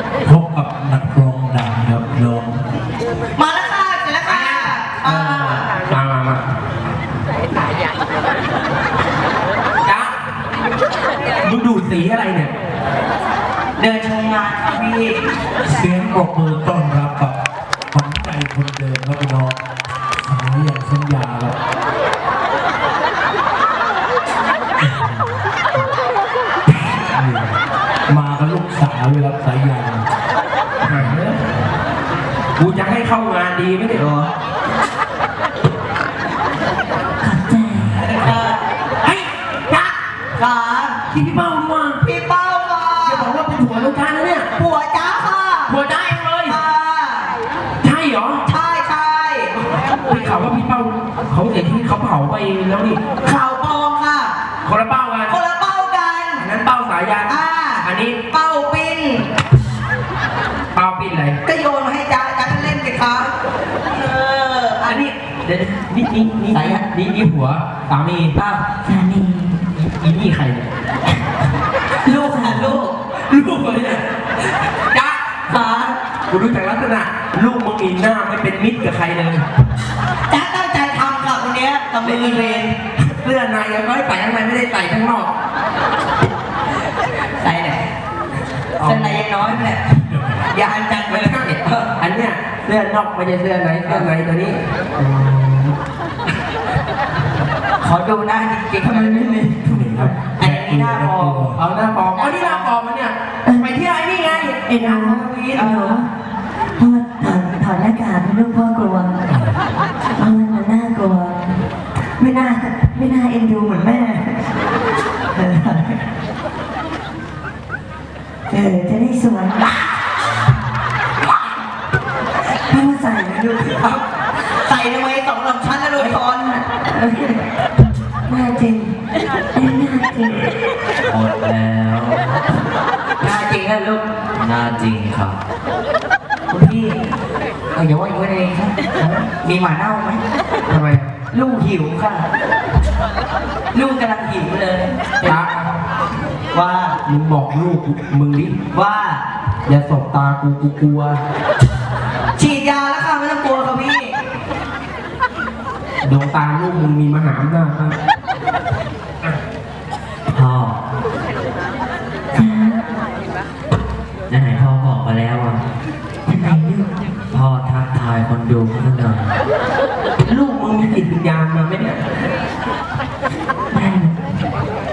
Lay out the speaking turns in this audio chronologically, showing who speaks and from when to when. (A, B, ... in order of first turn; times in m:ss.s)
0:00.2-0:02.6 A
0:03.4-0:05.7 B
0:04.2-0:06.4 C
0:09.8-0:10.1 C
0:11.4-0:12.5 C
0:13.8-0:15.3 B
0:15.6-0:17.4 A
0:17.9-0:19.6 A
0:20.2-0:21.6 A
0:24.8-0:25.2 A
0:27.0-0:27.5 A
0:28.1-0:30.0 A
0:30.8-0:31.4 C
0:32.6-0:34.0 C
0:33.9-0:34.3 B
0:37.3-0:37.9 D
0:38.0-0:38.6 B
0:39.0-0:39.9 C
0:40.3-0:41.0 B
0:41.1-0:42.0 C
0:42.0-0:43.4 B
0:43.0-0:44.5 C
0:44.5-0:45.7 B
0:45.7-0:46.6 C
0:46.5-0:47.3 B
0:47.8-0:48.4 C
0:48.4-0:49.6 B
0:50.0-0:53.0 C
0:53.2-0:54.3 B
0:54.6-0:55.4 C
0:55.3-0:56.4 B
0:56.4-0:58.2 C
0:57.3-0:59.3 B
1:00.7-1:01.4 C
1:01.4-1:03.3 B
1:03.9-1:05.0 B
1:04.8-1:08.3 C
1:06.5-1:06.8 B
1:08.4-1:08.6 B
1:08.9-1:09.6 D
1:09.8-1:10.7 C
1:12.0-1:12.9 B
1:13.1-1:14.0 C
1:14.9-1:15.2 C
1:15.5-1:16.0 B
1:16.3-1:19.4 C
1:20.3-1:22.7 B
1:22.0-1:25.3 C
1:27.4-1:27.9 B
1:28.8-1:29.2 C
1:28.8-1:31.8 B
1:30.1-1:30.4 A
1:31.1-1:35.6 C
1:37.8-1:41.5 B
1:38.9-1:41.6 A
1:41.6-1:45.7 C
1:42.1-1:42.7 B
1:44.8-1:46.0 B
1:46.9-1:49.1 D
1:49.3-1:49.6 A
1:50.2-1:51.4 D
1:52.2-1:54.4 D
1:55.4-1:55.9 D
1:58.5-1:59.8 D
2:02.7-2:03.7 D
2:03.7-2:04.0 B
2:04.6-2:06.6 B
2:06.9-2:07.3 D
2:08.3-2:08.9 D
2:09.5-2:10.4 D
2:11.1-2:12.3 E
2:13.2-2:14.0 B
2:14.3-2:15.4 E
2:16.5-2:17.0 B
2:17.7-2:18.7 B
2:19.0-2:19.2 C
2:19.4-2:20.2 B
2:20.7-2:21.1 C
2:21.3-2:22.2 B
2:23.7-2:25.4 B
2:25.2-2:25.8 C
2:26.5-2:27.0 B
2:27.0-2:28.6 C
2:28.7-2:29.2 B
2:29.7-2:31.2 C
2:32.4-2:34.1 B
2:36.0-2:38.0 C
2:40.3-2:40.8 E
2:42.3-2:42.8 D
2:44.3-2:45.6 E
2:46.3-2:46.9 D
2:47.3-2:49.3 E
2:50.2-2:52.0 C
2:53.7-2:54.1 D